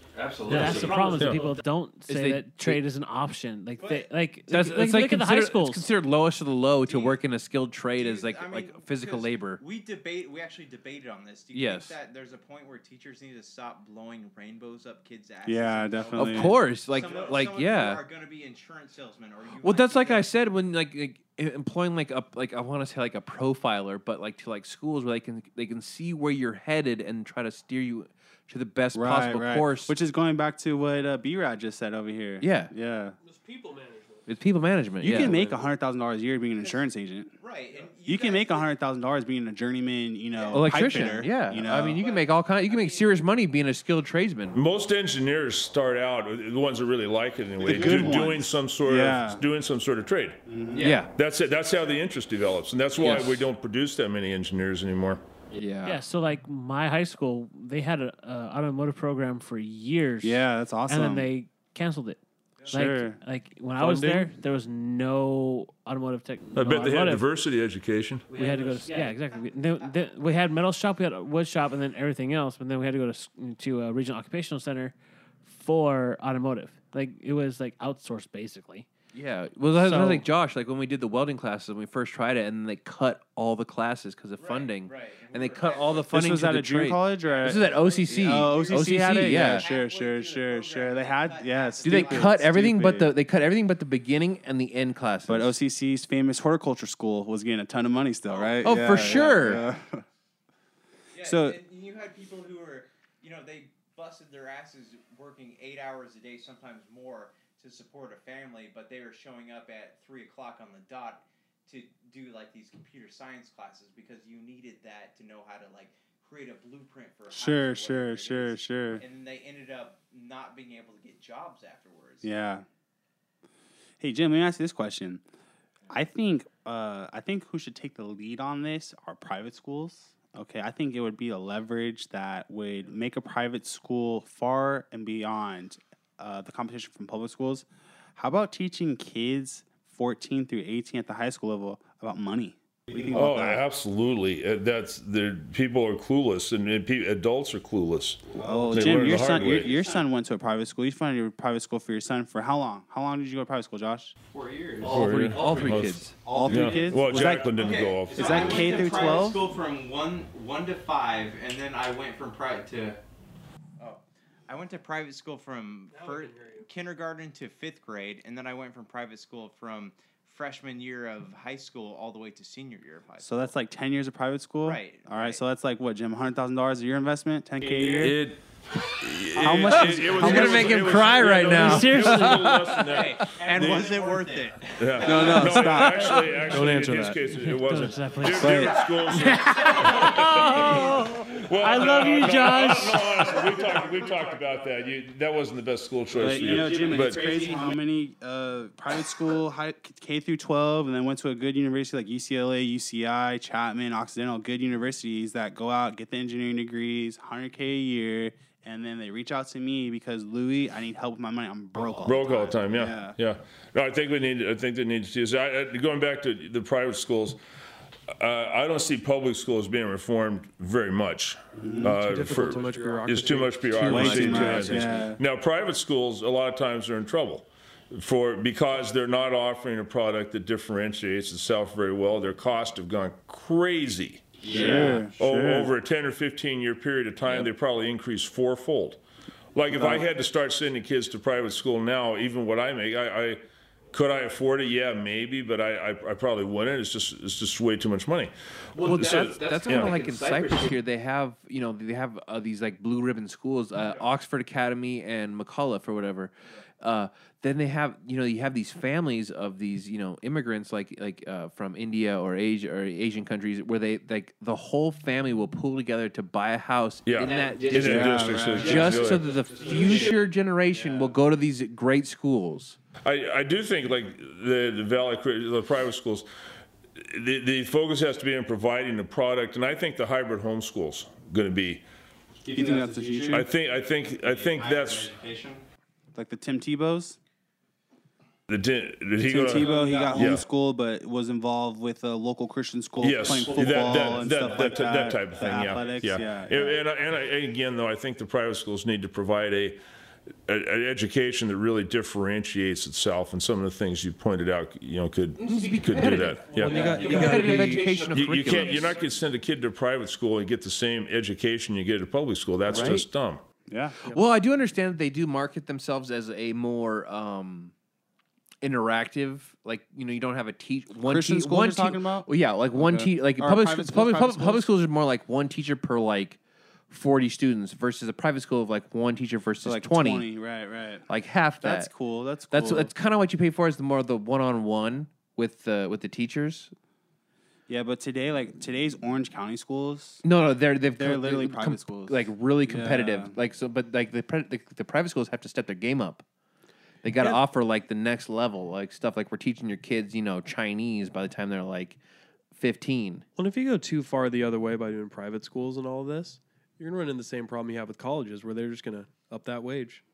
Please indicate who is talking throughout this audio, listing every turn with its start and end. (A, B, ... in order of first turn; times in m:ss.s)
0:00.2-0:01.5 A
0:00.3-0:01.3 B
0:00.4-0:05.9 C
0:01.2-0:01.4 D
0:02.1-0:02.8 B
0:03.8-0:04.1 A
0:04.5-0:09.6 B
0:06.8-0:07.2 A
0:08.0-0:20.3 A
0:11.5-0:11.9 B
0:15.4-0:16.6 E
0:16.1-0:18.0 B
0:19.6-0:29.9 B
0:28.9-0:33.2 E
0:32.4-0:32.7 B
0:33.2-0:34.3 F
0:34.3-0:35.4 B
0:35.0-0:37.3 E
0:35.0-0:35.6 F
0:37.4-0:38.7 A
0:38.0-0:42.0 E
0:40.4-0:40.7 A
0:40.5-0:44.6 B
0:41.7-0:43.1 A
0:44.5-0:55.2 D
0:47.6-0:49.4 E
0:50.5-0:51.0 E
0:50.8-0:51.1 B
0:53.0-0:53.4 B
0:55.5-0:56.0 B
0:55.8-1:07.3 C
1:00.2-1:01.3 E
1:02.7-1:03.2 E
1:03.8-1:04.3 E
1:06.5-1:08.3 D
1:08.3-1:18.9 C
1:08.3-1:10.0 A
1:19.1-1:29.7 B
1:19.8-1:20.2 C
1:24.4-1:26.1 A
1:26.1-1:33.1 E
1:27.2-1:32.5 A
1:31.8-1:35.5 B
1:35.3-1:40.0 E
1:38.3-1:39.5 A
1:38.6-1:39.6 B
1:41.1-2:02.3 A
1:41.2-1:41.6 E
1:57.3-1:59.0 E
2:02.2-2:02.6 E
2:04.0-2:05.2 E
2:05.9-2:23.6 E
2:23.1-2:29.8 D
2:28.3-2:34.1 E
2:29.5-2:30.0 A
2:34.3-2:43.0 A
2:34.8-2:36.1 B
2:34.8-2:38.7 D
2:36.2-2:37.6 E
2:38.1-2:39.4 E
2:43.8-2:53.5 A
2:45.9-2:46.7 F
2:53.2-2:58.3 E
2:54.6-2:55.4 A
2:57.7-2:58.4 D
2:59.0-3:04.0 D
2:59.4-3:01.2 E
2:59.7-3:02.6 B
3:01.6-3:02.8 C
3:02.8-3:05.8 A
3:04.0-3:04.3 E
3:04.8-3:17.3 D
3:05.0-3:06.2 E
3:06.4-3:07.2 F
3:07.2-3:13.6 C
3:08.2-3:08.9 E
3:16.2-3:33.2 E
3:16.6-3:17.8 A
3:32.0-3:37.4 D
3:38.2-3:59.0 D
3:41.6-3:42.0 E
3:41.8-3:45.0 F
3:43.8-3:45.2 E
3:43.9-3:44.5 B
3:54.4-3:55.7 E
3:54.5-3:55.0 B
3:59.5-4:10.2 D
3:59.7-4:00.0 E
4:08.8-4:32.8 B
4:27.0-4:29.3 D
4:27.2-4:27.6 A
4:27.6-4:29.2 E
4:30.7-4:31.1 E
4:33.0-4:36.3 D
4:37.0-4:41.8 D
4:42.4-4:43.4 A
4:42.5-4:43.5 E
4:43.3-4:45.2 D
4:44.2-4:45.6 A
4:46.1-4:47.2 E
4:48.5-4:50.4 D
4:49.2-4:56.8 E
4:49.7-4:50.2 A
4:53.0-4:59.8 D
5:00.5-5:07.4 D
5:05.4-5:08.9 B
5:06.6-5:08.0 F
5:06.8-5:07.1 E
5:08.1-5:13.4 D
5:12.7-5:13.0 B
5:13.7-5:14.0 E
5:14.0-5:17.7 B
5:18.6-5:26.4 B
5:21.0-5:24.7 E
5:26.9-5:30.3 B
5:29.6-5:31.1 E
5:31.1-5:31.9 B
5:31.6-5:32.9 E
5:32.5-5:36.7 B
5:37.7-5:40.2 E
5:40.2-5:46.2 B
5:40.9-5:43.3 E
5:47.0-5:52.0 B
5:52.5-5:53.2 B
5:53.4-6:00.0 F